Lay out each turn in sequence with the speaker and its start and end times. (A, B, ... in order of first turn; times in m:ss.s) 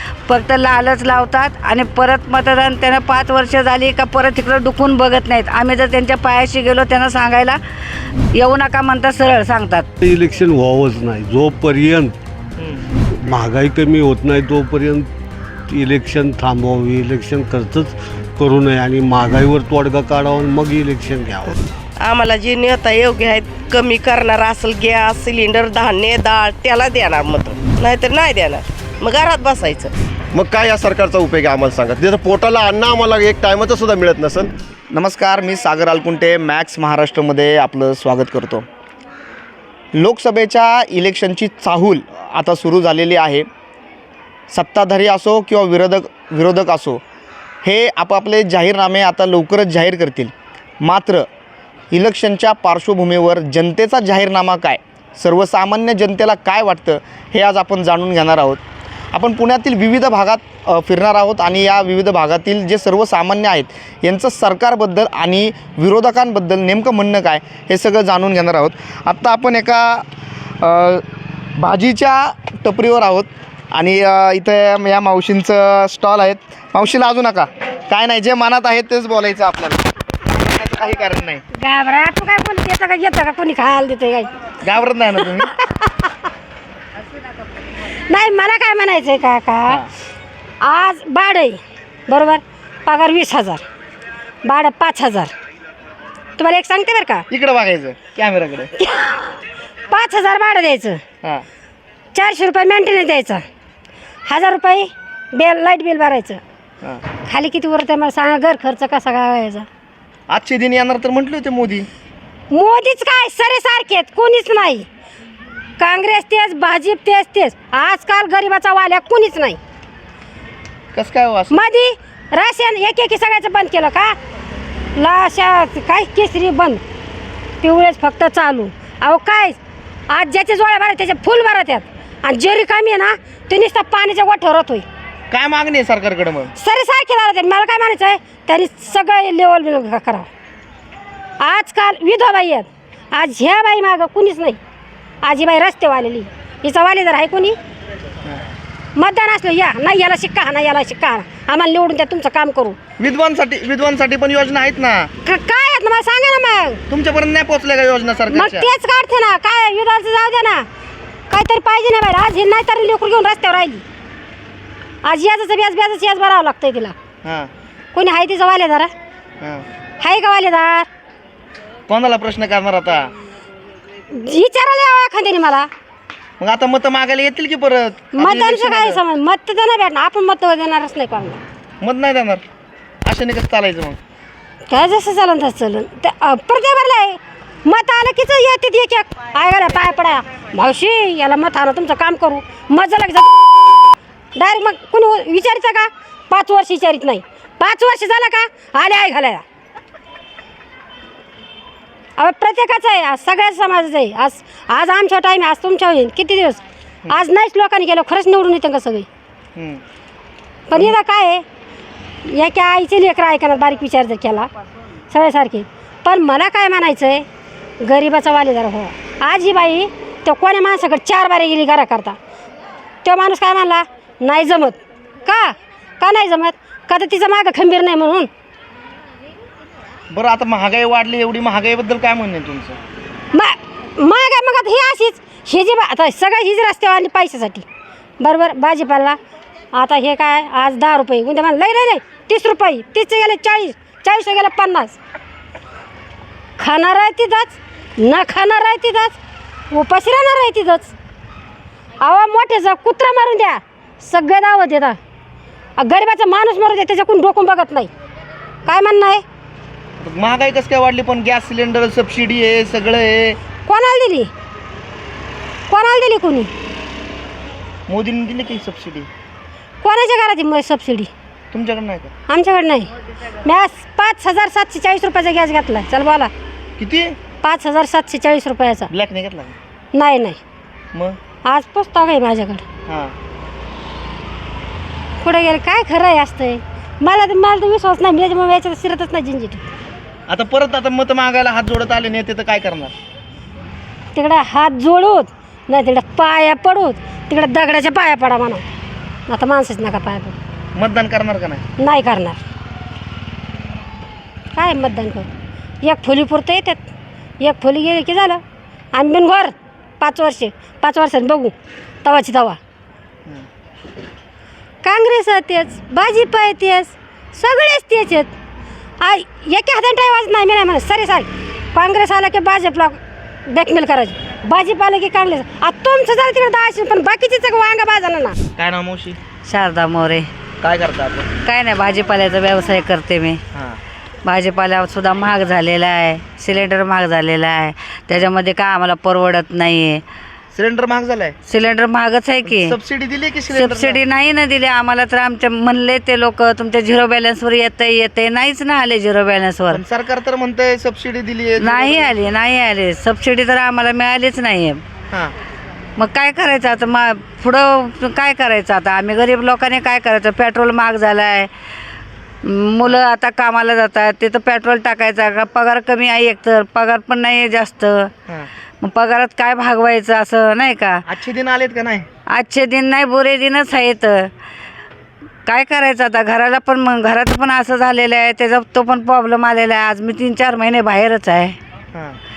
0:00.3-0:07.6 A
0:08.4-0:09.9 A
0:10.0-0:12.1 B
0:12.6-0:12.9 C
0:13.2-0:15.1 B
0:15.7-0:21.6 B
0:22.0-0:29.9 D
0:30.3-0:34.5 E
0:34.9-0:38.7 C
0:39.9-0:43.5 C
0:44.5-0:47.0 C
0:47.6-0:51.3 C
0:51.9-0:58.6 C
0:59.1-1:10.1 C
1:10.6-1:11.0 C
1:11.6-1:21.4 C
1:21.5-1:24.3 F
1:24.6-1:25.5 C
1:25.2-1:26.1 F
1:28.1-1:29.8 F
1:30.6-1:33.6 F
1:34.4-1:35.3 F
1:36.4-1:37.3 F
1:37.3-1:38.7 C
1:38.8-1:39.4 F
1:39.9-1:41.0 F
1:42.1-1:43.4 F
1:44.3-1:46.4 F
1:47.3-1:49.7 F
1:50.3-1:51.9 C
1:52.5-1:54.9 F
1:55.8-1:59.6 F
2:00.9-2:01.6 C
2:01.5-2:04.2 F
2:05.0-2:06.8 F
2:07.6-2:09.6 F
2:10.1-2:14.9 F
2:15.3-2:16.5 C
2:16.6-2:20.3 F
2:21.4-2:24.6 F
2:25.2-2:27.6 F
2:29.0-2:32.8 F
2:33.0-2:35.1 C
2:35.2-2:36.8 F
2:36.9-2:38.7 C
2:38.3-2:40.7 F
2:41.3-2:43.8 F
2:45.0-2:47.0 F
2:47.2-2:47.5 C
2:47.9-2:48.9 F
2:50.0-2:50.9 F
2:51.9-2:53.1 C
2:54.1-2:55.7 F
2:56.4-2:59.0 C
2:58.2-3:01.4 F
3:01.8-3:02.4 C
3:03.0-3:04.0 C
3:04.7-3:13.7 F
3:14.4-3:19.4 F
3:22.2-3:29.1 F
3:29.6-3:29.8 C
3:30.7-3:31.4 F
3:32.2-3:34.5 F
3:35.1-3:37.3 F
3:37.8-3:42.2 F
3:43.0-3:48.3 F
3:50.1-3:52.8 C
3:53.3-3:57.7 F
3:58.2-3:59.2 F
3:59.7-4:05.0 F
4:06.6-4:09.2 F
4:09.7-4:10.9 F
4:12.0-4:15.0 F
4:15.8-4:17.9 F
4:18.7-4:19.2 F
4:20.0-4:23.4 C
4:23.7-4:24.3 F
4:25.7-4:26.5 F
4:27.9-4:29.1 C
4:29.8-4:31.1 F
4:31.5-4:32.1 C
4:32.3-4:32.9 F
4:33.4-4:36.3 F
4:36.8-4:37.2 C
4:37.4-4:38.9 F
4:38.9-4:39.5 C
4:39.9-4:40.4 F
4:41.4-4:42.6 F
4:42.9-4:43.2 C
4:45.2-4:49.6 F
4:50.3-4:52.9 C
4:54.1-4:58.6 F
4:59.3-5:00.4 F
5:00.8-5:01.6 C
5:01.8-5:02.4 F
5:04.6-5:05.3 F
5:05.8-5:06.9 F
5:07.4-5:08.4 F
5:08.9-5:12.6 F
5:14.8-5:18.3 F
5:19.0-5:28.4 F
5:28.6-5:29.2 C
5:29.4-5:30.3 A
5:30.6-5:31.3 C
5:31.4-5:33.4 A
5:33.5-5:33.8 C
5:34.2-5:40.0 A
5:40.5-5:41.4 C
5:41.5-5:42.8 A
5:42.4-5:44.0 C
5:43.5-5:49.8 A
5:49.7-5:52.1 C
5:51.6-5:54.8 A
5:56.0-6:01.5 A
6:02.4-6:08.1 A
6:08.8-6:11.0 A
6:11.1-6:12.1 C
6:12.3-6:14.3 A
6:15.5-6:21.6 A
6:21.9-6:22.2 C